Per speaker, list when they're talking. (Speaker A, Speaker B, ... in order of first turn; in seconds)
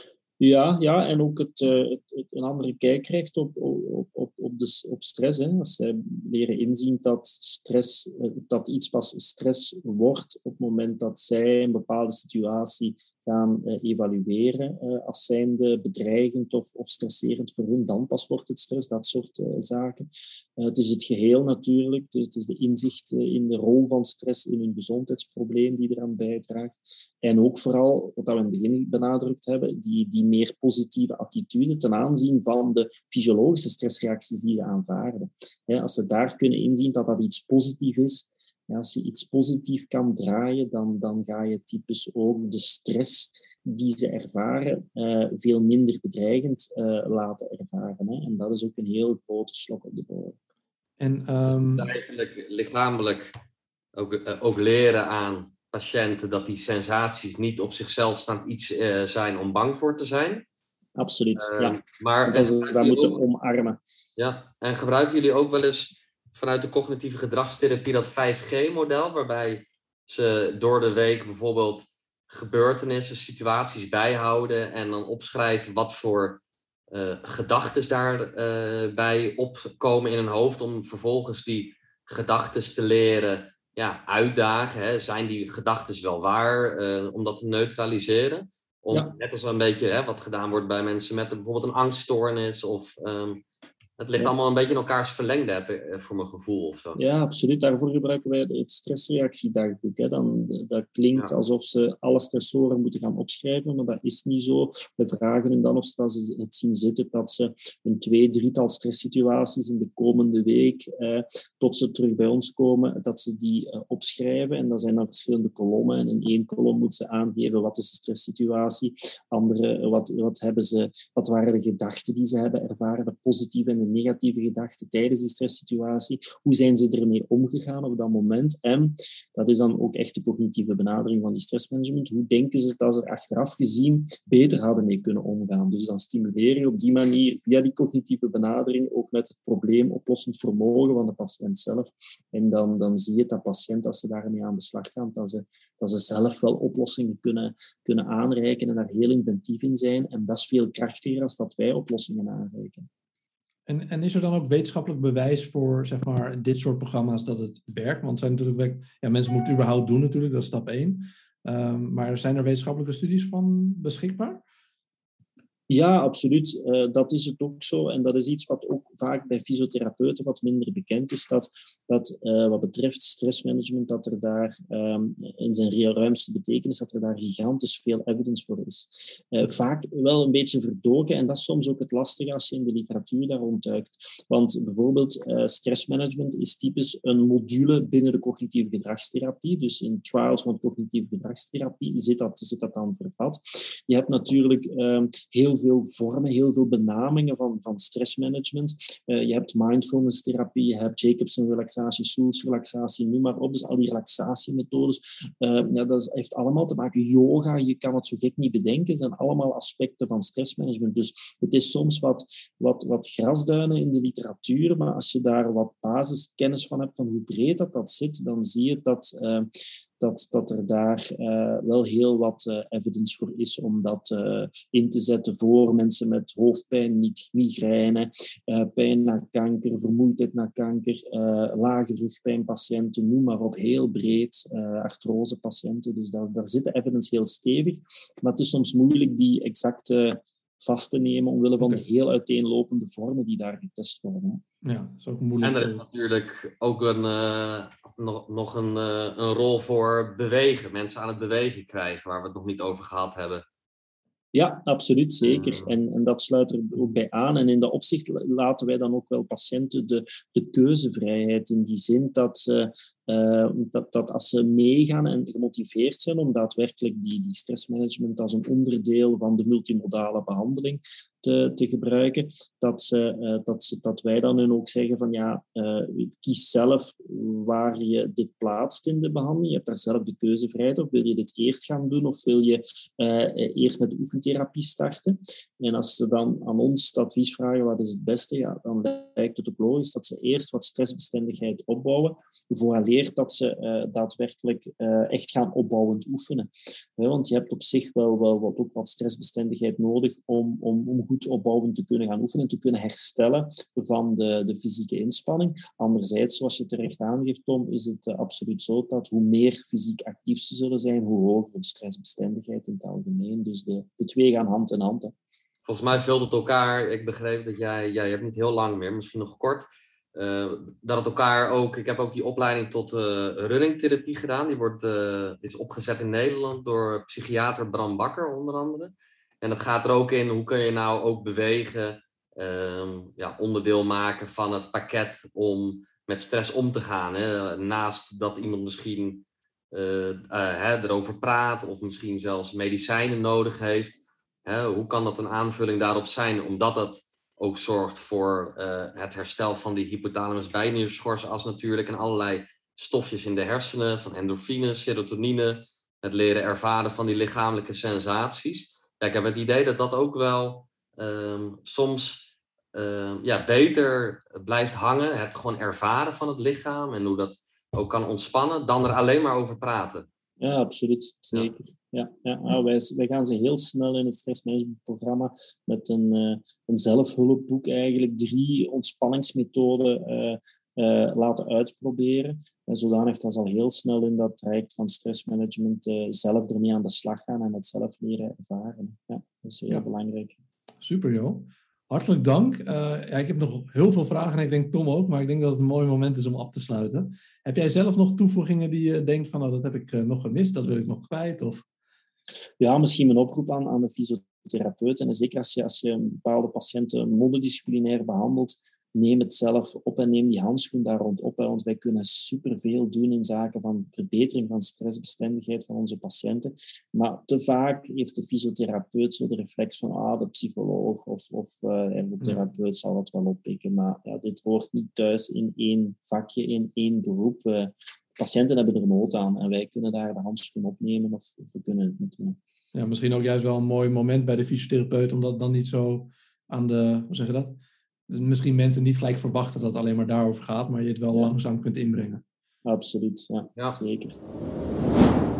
Speaker A: 0.4-50.4, 61.0-63.8, 97.0-152.9, 165.7-244.4, 254.3-315.1, 370.4-390.4, 402.6-432.4, 442.6-444.2
Speaker B: 51.0-51.9, 153.7-164.4, 244.6-245.8, 390.8-401.6, 432.7-437.6, 438.1-442.2
Speaker C: 51.5-53.3, 54.0-60.4, 61.4-63.2, 64.2-76.4, 76.9-93.4, 94.0-97.0, 245.4-253.4, 255.2-255.8, 315.7-370.1